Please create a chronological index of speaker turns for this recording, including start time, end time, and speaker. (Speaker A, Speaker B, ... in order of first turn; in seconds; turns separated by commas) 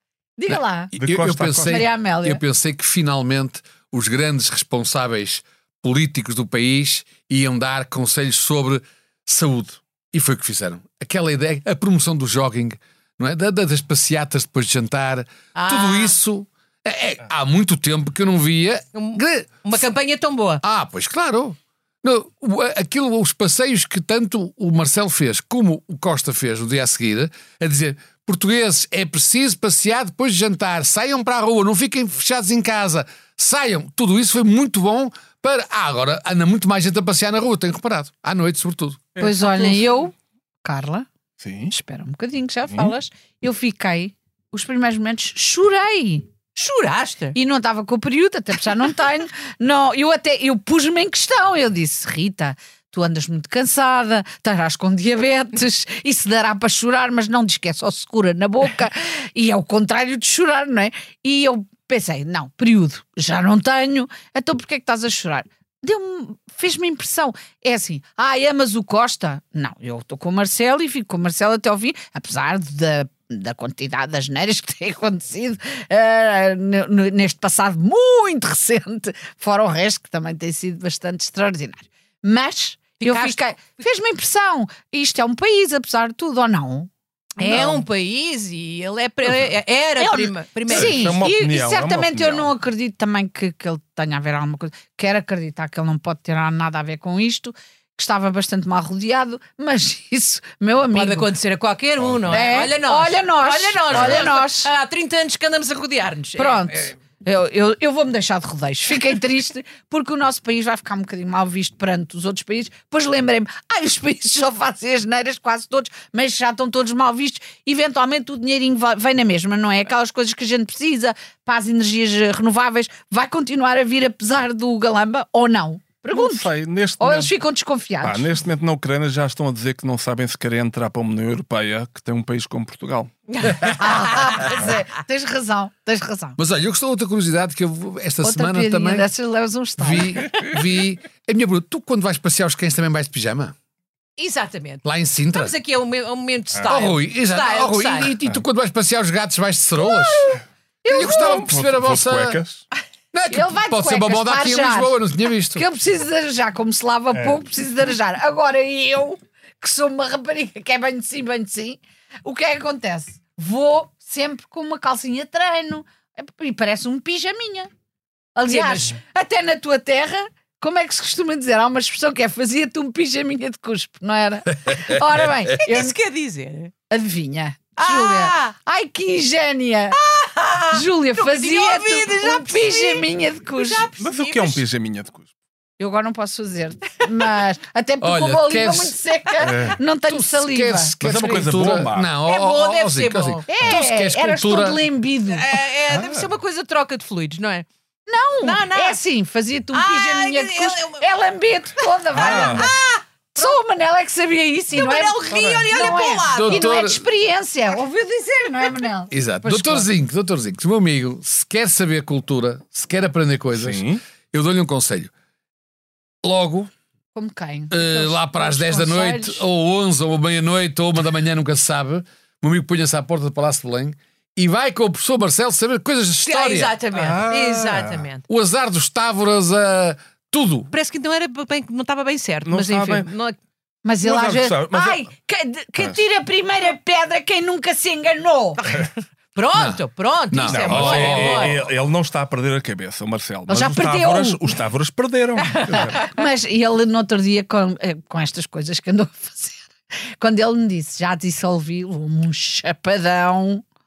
Speaker A: 0.4-0.9, Speaker B: 0.9-19.9, Speaker C: 1.0-1.9, Speaker A: 1.7-2.4, Speaker D: 15.5-16.1, Speaker D: 18.9-20.6, Speaker B: 20.6-39.1, Speaker C: 39.1-39.7, Speaker A: 39.2-41.1, Speaker C: 41.4-41.7, Speaker A: 41.7-46.3, Speaker D: 46.5-47.4, Speaker A: 47.3-87.8, Speaker D: 83.0-83.4, Speaker D: 87.4-91.1, Speaker A: 90.0-101.3, Speaker C: 90.7-92.5, Speaker D: 100.9-106.8, Speaker C: 102.0-102.5, Speaker A: 102.3-104.7, Speaker C: 103.9-104.2, Speaker A: 106.3-126.5, Speaker C: 126.1-127.3, Speaker A: 127.0-128.3, Speaker C: 128.0-133.1, Speaker D: 133.3-134.4, Speaker A: 133.6-136.4, Speaker B: 136.4-139.1, Speaker A: 138.2-140.3, Speaker B: 139.8-143.5, Speaker D: 144.2-148.1, Speaker B: 144.8-145.6, Speaker B: 146.7-150.3, Speaker A: 149.8-151.5, Speaker B: 150.9-152.4, Speaker C: 151.0-152.6, Speaker B: 153.1-155.6, Speaker A: 153.3-155.0, Speaker A: 155.5-167.7, Speaker A: 168.3-176.0, Speaker D: 168.5-169.0, Speaker D: 175.6-176.7, Speaker A: 176.9-180.0, Speaker D: 177.8-178.5, Speaker D: 179.9-184.6, Speaker A: 180.7-183.9, Speaker C: 184.0-185.3, Speaker A: 185.8-190.9, Speaker B: 188.0-189.0, Speaker C: 189.4-189.8, Speaker B: 189.5-194.8, Speaker C: 191.0-192.1, Speaker D: 192.2-193.4, Speaker A: 193.5-195.5, Speaker D: 195.3-197.7, Speaker C: 195.9-196.3, Speaker A: 198.1-202.7, Speaker D: 198.4-199.0, Speaker D: 199.7-201.0, Speaker D: 202.1-203.6, Speaker C: 202.1-202.7, Speaker A: 203.3-209.9, Speaker D: 204.7-206.7, Speaker C: 205.3-205.7, Speaker B: 206.3-207.0, Speaker B: 209.1-215.1, Speaker C: 213.5-214.0, Speaker B: 216.2-216.7, Speaker A: 217.1-219.4, Speaker B: 217.7-226.8, Speaker D: 226.2-228.2, Speaker C: 226.9-228.1, Speaker B: 228.3-230.7, Speaker D: 230.7-233.3, Speaker C: 232.4-233.1, Speaker A: 233.8-238.6, Speaker C: 234.0-235.0, Speaker D: 239.3-241.6, Speaker B: 239.5-241.6, Speaker C: 240.4-246.0, Speaker A: 243.5-244.5, Speaker A: 245.7-253.6, Speaker D: 245.8-246.0